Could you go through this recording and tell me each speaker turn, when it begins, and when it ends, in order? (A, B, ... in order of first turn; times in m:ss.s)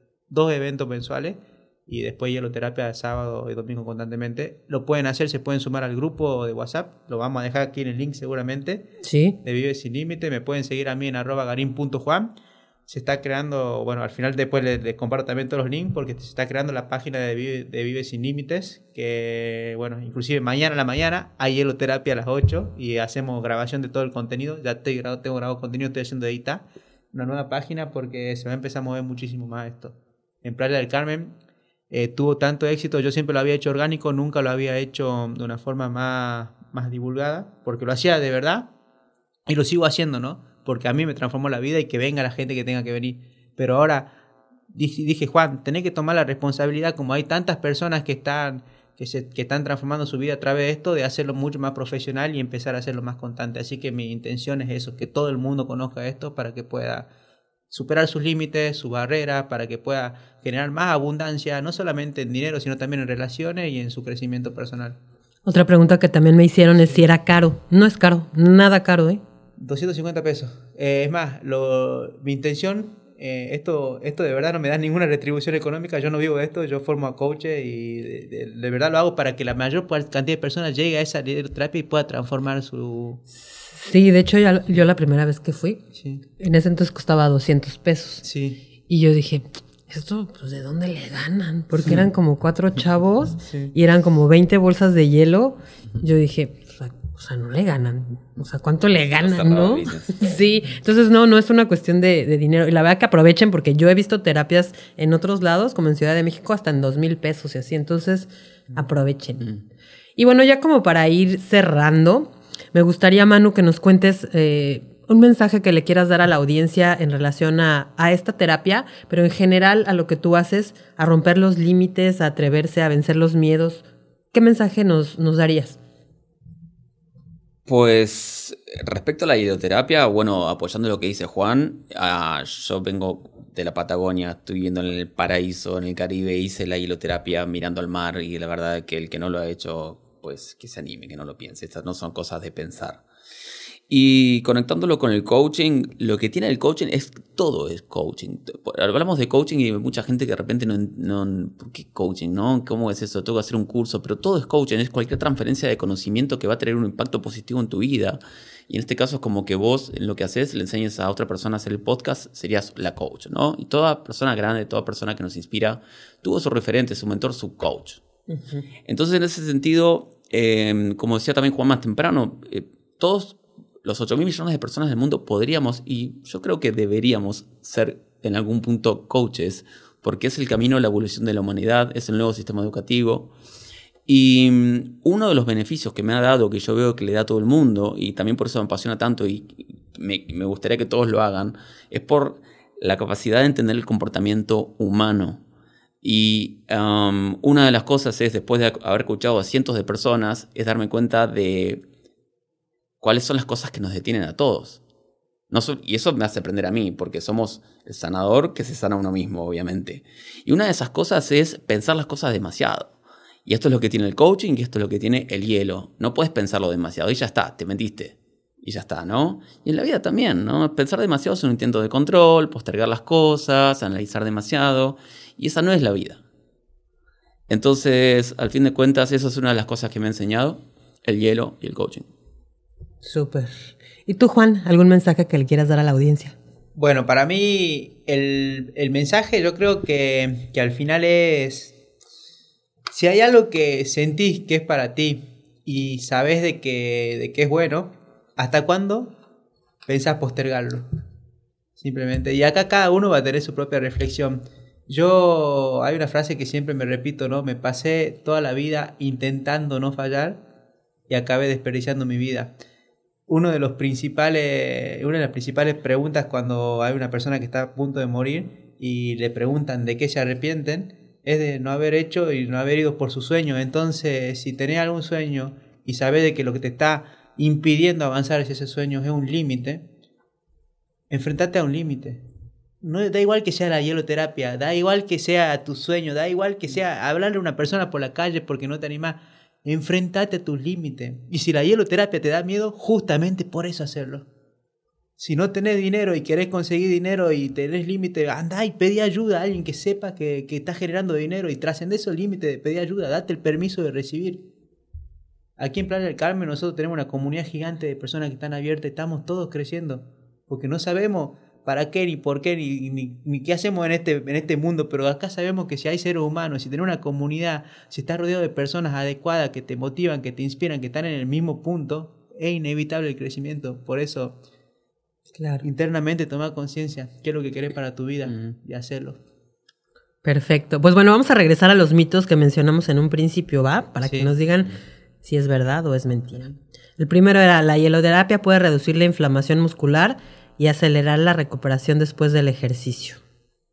0:00.3-0:08.8 A
0:09.0-0:09.3 B
0:09.4-0:12.3 A
0:12.9-0:31.3 A
0:31.9-0:38.7 A
0:39.5-0:44.1 A
0:44.7-0:57.1 A
0:57.7-1:05.0 A
1:05.4-1:09.2 B
1:06.8-1:07.0 A
1:09.6-1:23.2 A
1:23.4-1:25.8 B
1:25.9-1:26.2 A
1:26.4-1:28.2 B
1:28.2-1:28.6 A
1:28.9-1:49.5 B
1:33.4-1:33.7 A
1:39.1-1:40.1 C
1:50.2-2:05.8 B
2:07.6-2:23.0 C
2:23.9-2:48.0 C
2:48.3-2:48.6 B
2:48.9-3:03.3 C
3:04.1-3:15.4 C
3:16.0-3:21.8 C
3:23.0-3:24.8 C
3:25.5-3:32.9 C
3:33.4-3:46.2 C
3:47.5-3:52.1 C
3:53.0-3:56.4 B
3:56.7-4:01.8 A
4:02.9-4:09.1 A
4:09.8-4:10.8 A
4:11.8-4:20.4 A
4:21.1-4:22.5 A
4:23.3-4:39.8 A
4:41.1-4:42.2 A
4:42.8-4:54.2 A
4:55.2-5:04.4 A
5:05.6-5:24.4 A
5:25.4-5:25.6 B
5:25.6-5:29.2 A
5:30.2-5:43.2 B
5:34.0-5:34.3 A